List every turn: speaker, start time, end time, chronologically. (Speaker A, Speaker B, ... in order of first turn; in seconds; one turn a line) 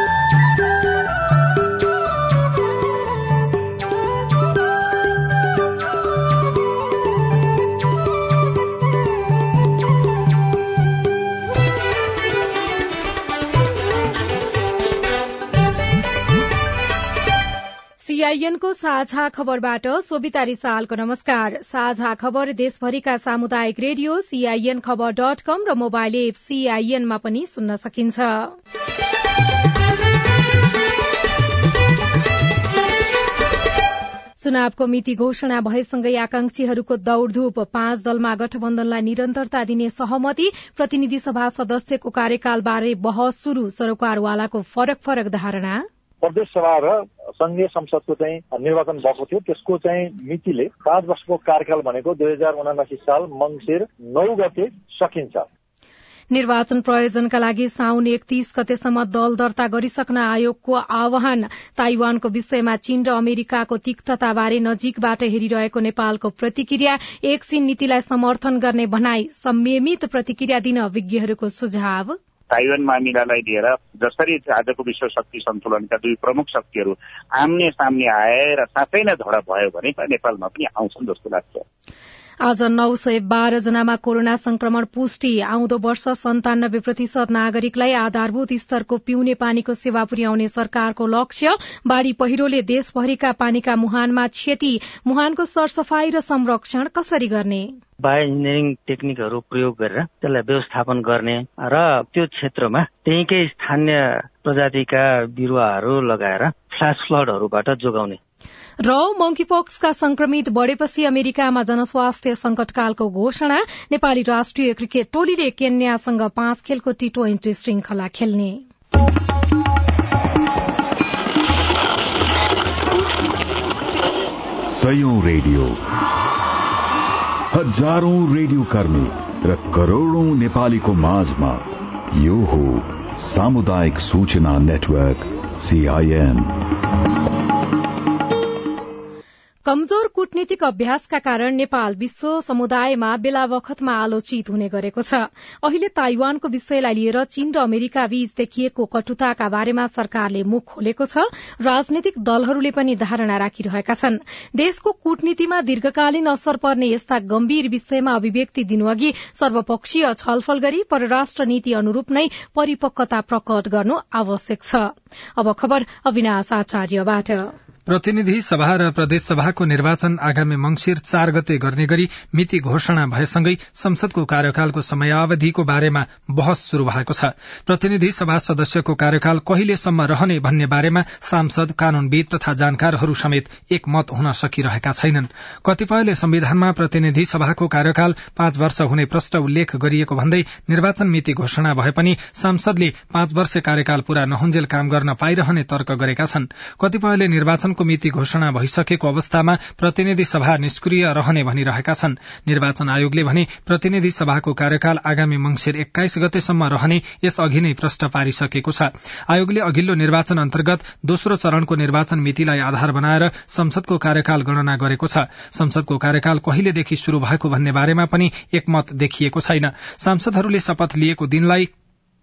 Speaker A: 18.0-28.6
Speaker A: 34.4-45.9
Speaker B: 46.2-55.5
Speaker A: 56.3-72.2
Speaker C: 72.5-81.6
Speaker A: 82.4-97.8
Speaker D: 98.0-108.2
Speaker A: 108.8-118.6
Speaker E: 124.7-125.8
Speaker E: 127.5-136.6
Speaker A: 139.7-167.5
Speaker F: 167.9-221.7